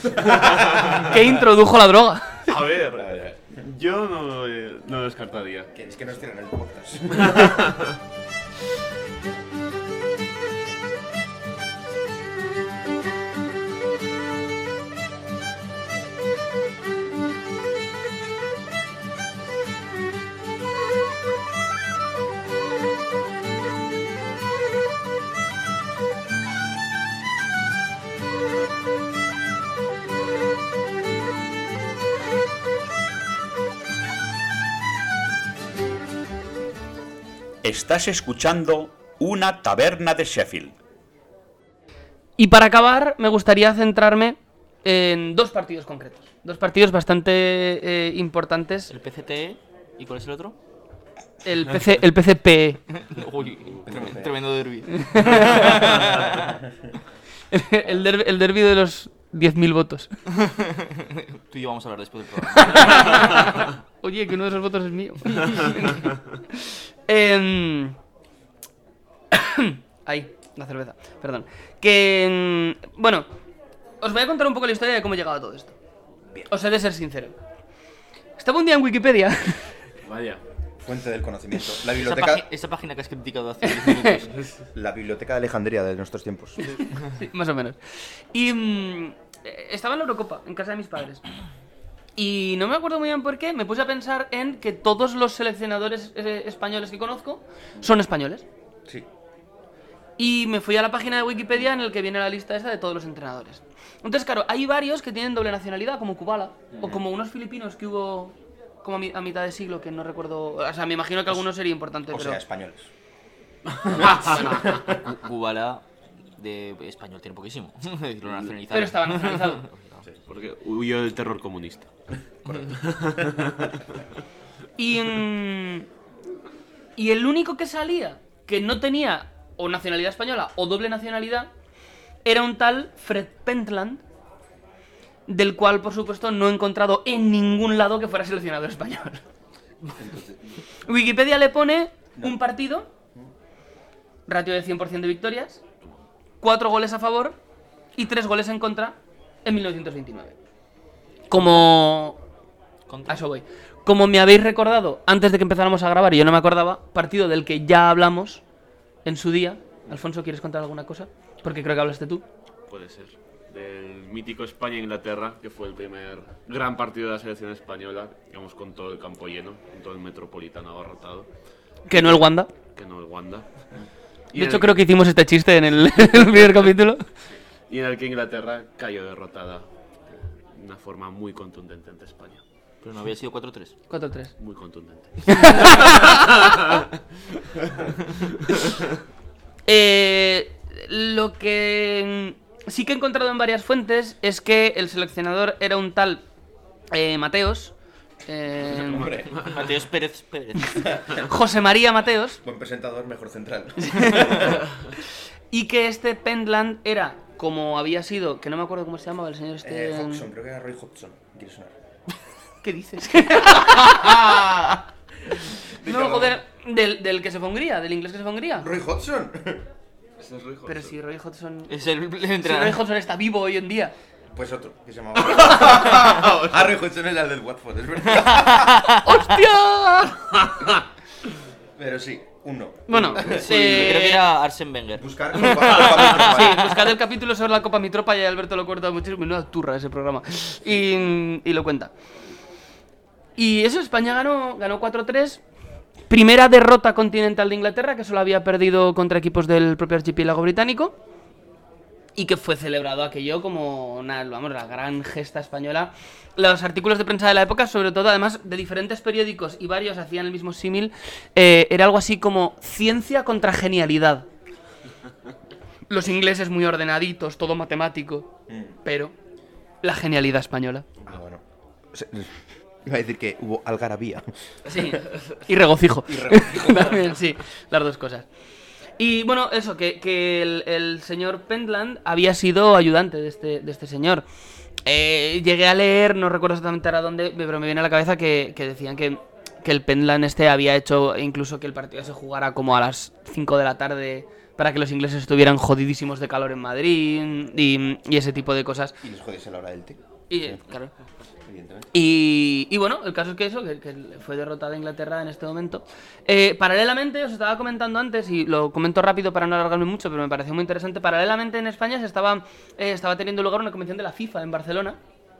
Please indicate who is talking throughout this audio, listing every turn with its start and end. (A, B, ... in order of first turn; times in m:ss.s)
0:00.2-0:01.1 A
0:00.4-0:00.6 B
0:00.8-0:02.5 C
0:02.5-0:05.7 A
0:03.0-0:03.4 B
0:05.7-0:07.5 B
0:07.2-0:07.9 A
0:37.6-0:40.7 D
0:42.4-0:48.9 C
0:48.9-0:50.6 E
0:51.4-0:52.8 C
0:52.9-0:56.6 E
0:53.8-0:54.3 B
0:54.9-0:56.0 C
0:57.5-1:00.1 C
1:00.3-1:03.5 E
1:02.5-1:08.0 C
1:09.3-1:13.3 C
1:14.0-1:15.8 C
1:16.5-1:17.4 C
1:18.4-1:19.7 C
1:20.0-1:20.4 A
1:20.8-1:22.4 B
1:21.9-1:24.4 E
1:23.8-1:24.1 C
1:24.7-1:26.6 B
1:26.6-1:27.8 C
1:28.3-1:31.2 C
1:32.2-1:38.4 C
1:40.2-1:52.4 C
1:52.1-1:52.9 B
1:53.8-1:55.0 B
1:53.9-1:54.3 A
1:54.9-2:00.0 E
1:58.7-1:59.6 C
2:00.3-2:01.9 A
2:02.4-2:03.5 B
2:02.7-2:04.0 A
2:04.8-2:05.9 C
2:07.0-2:11.5 C
2:12.2-2:14.0 C
2:15.3-2:19.2 C
2:20.0-2:20.4 B
2:20.8-2:22.9 C
2:24.3-2:25.6 C
2:26.4-2:27.4 C
2:28.0-2:30.4 C
2:31.3-2:32.2 C
2:32.9-2:33.2 E
2:33.1-2:38.4 C
2:39.0-2:42.2 C
2:42.7-2:51.3 A
2:51.9-2:52.5 C
2:51.9-2:53.4 A
2:54.3-2:54.7 A
2:54.3-2:57.0 C
2:57.7-2:59.6 A
3:00.5-3:02.4 A
3:02.8-3:03.7 E
3:03.9-3:04.3 C
3:04.4-3:08.9 A
3:05.2-3:06.2 C
3:09.6-3:16.2 C
3:16.9-3:17.7 C
3:18.2-3:19.2 C
3:18.6-3:19.4 B
3:19.3-3:20.9 E
3:21.1-3:22.4 C
3:22.4-3:24.6 B
3:23.8-3:24.6 C
3:25.5-3:30.3 C
3:29.6-3:31.7 B
3:32.6-3:34.3 C
3:35.8-3:36.4 B
3:35.8-3:38.7 C
3:38.6-3:39.6 B
3:40.2-3:40.9 A
3:40.6-3:41.8 C
3:41.7-3:42.8 E
3:42.4-3:43.9 C
3:44.3-3:48.9 B
3:46.2-3:46.6 A
3:48.3-3:49.1 E
3:49.0-3:50.5 C
3:51.8-3:53.9 B
3:52.9-3:54.3 C
3:53.2-3:56.8 E
3:55.0-3:56.7 B
3:55.3-4:01.9 C
4:03.4-4:05.4 C
4:06.1-4:11.0 C
4:12.2-4:24.3 C
4:25.9-4:28.3 C
4:28.8-4:29.1 C
4:29.8-4:30.8 C
4:31.0-4:34.3 B
4:34.7-4:38.3 C
4:36.1-4:36.9 B
4:39.0-4:44.2 C
4:44.8-4:59.0 C
4:59.0-5:00.6 B
5:00.3-5:00.9 C
5:01.5-5:01.9 B
5:01.9-5:15.0 C